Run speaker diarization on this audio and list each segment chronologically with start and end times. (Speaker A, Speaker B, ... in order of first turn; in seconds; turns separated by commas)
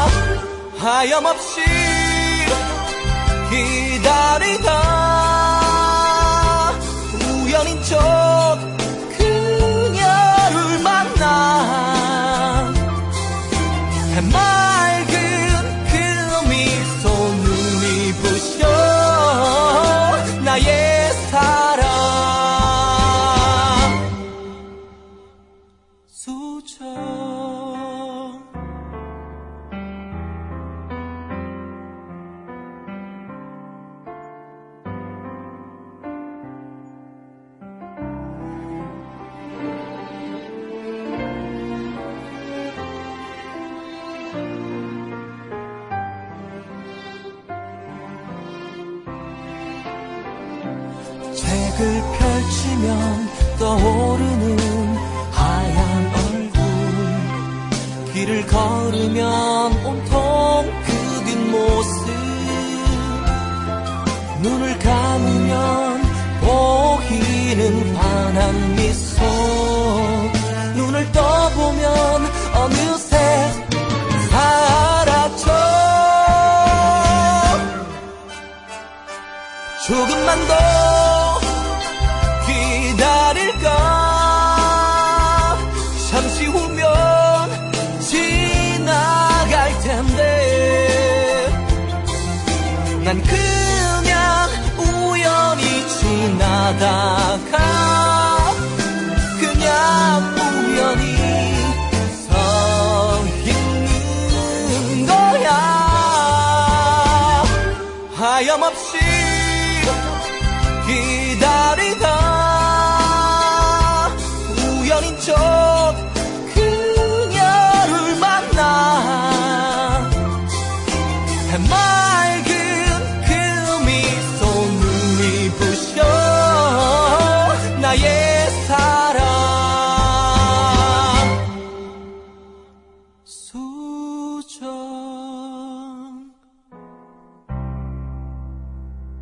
Speaker A: 0.7-2.5, Speaker A: 3.5-12.8, Speaker A: 14.1-23.9, Speaker A: 26.1-28.2, Speaker A: 51.3-57.4, Speaker A: 58.1-63.1, Speaker A: 64.3-73.6, Speaker A: 74.3-76.8, Speaker A: 79.8-81.4, Speaker A: 82.4-91.5, Speaker A: 93.0-98.6, Speaker A: 99.4-107.0, Speaker A: 108.1-109.9, Speaker A: 110.8-120.1, Speaker A: 121.5-130.5, Speaker A: 133.4-135.8